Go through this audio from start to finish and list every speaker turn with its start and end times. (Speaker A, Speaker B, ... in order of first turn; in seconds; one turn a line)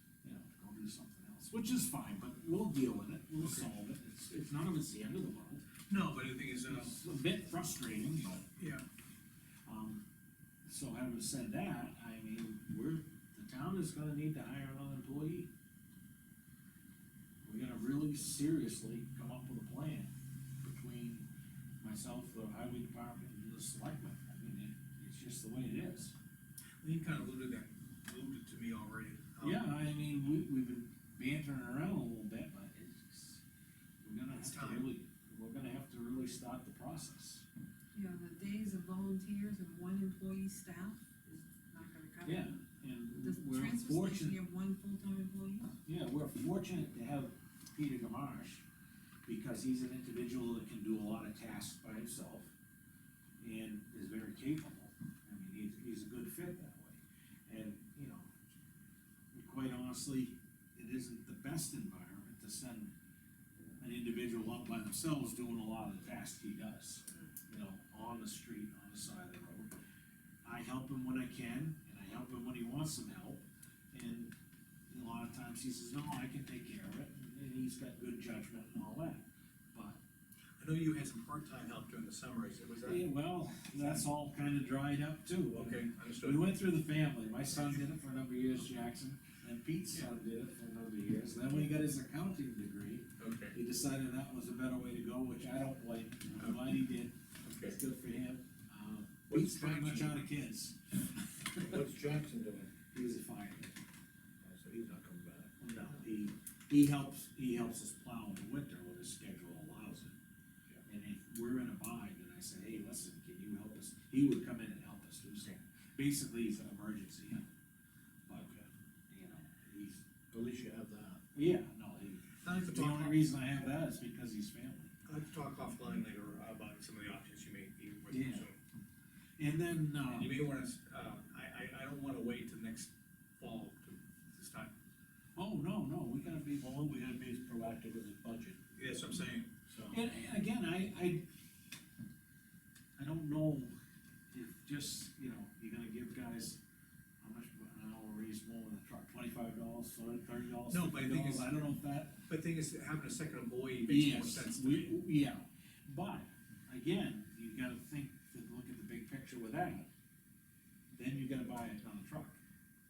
Speaker A: 0.2-5.7
Speaker B: 3.4-3.6
Speaker B: 5.9-7.0
Speaker A: 6.7-8.5
Speaker B: 8.6-8.8
Speaker A: 9.7-10.0
Speaker A: 10.6-15.5
Speaker A: 17.4-21.2
Speaker A: 21.8-26.1
Speaker B: 26.8-29.6
Speaker A: 29.4-33.4
Speaker A: 34.0-37.5
Speaker B: 34.4-34.9
Speaker C: 37.9-42.6
Speaker A: 42.2-44.4
Speaker C: 43.2-45.8
Speaker A: 45.8-48.6
Speaker A: 49.3-52.5
Speaker A: 53.4-58.3
Speaker A: 59.3-62.9
Speaker A: 63.8-69.7
Speaker A: 70.4-74.3
Speaker A: 74.9-80.0
Speaker B: 80.6-83.0
Speaker A: 82.8-100.8
Speaker B: 85.5-86.6
Speaker B: 93.2-93.5
Speaker B: 96.4-96.8
Speaker B: 97.4-97.8
Speaker D: 99.3-100.0
Speaker D: 101.6-102.7
Speaker A: 102.9-103.8
Speaker D: 104.4-105.5
Speaker A: 105.6-110.2
Speaker A: 110.9-117.5
Speaker A: 118.3-118.5
Speaker D: 118.3-118.7
Speaker A: 119.1-120.0
Speaker D: 120.3-121.2
Speaker A: 121.3-124.9
Speaker B: 122.4-123.2
Speaker B: 125.0-128.6
Speaker A: 128.1-128.5
Speaker A: 129.4-130.4
Speaker B: 130.1-134.7
Speaker A: 135.4-136.7
Speaker D: 136.6-138.7
Speaker B: 138.8-139.5
Speaker D: 139.7-140.0
Speaker A: 139.9-141.3
Speaker A: 143.0-143.7
Speaker A: 144.3-146.6
Speaker A: 147.2-152.2
Speaker B: 150.7-151.6
Speaker B: 152.3-155.0
Speaker A: 153.9-159.9
Speaker A: 160.9-162.4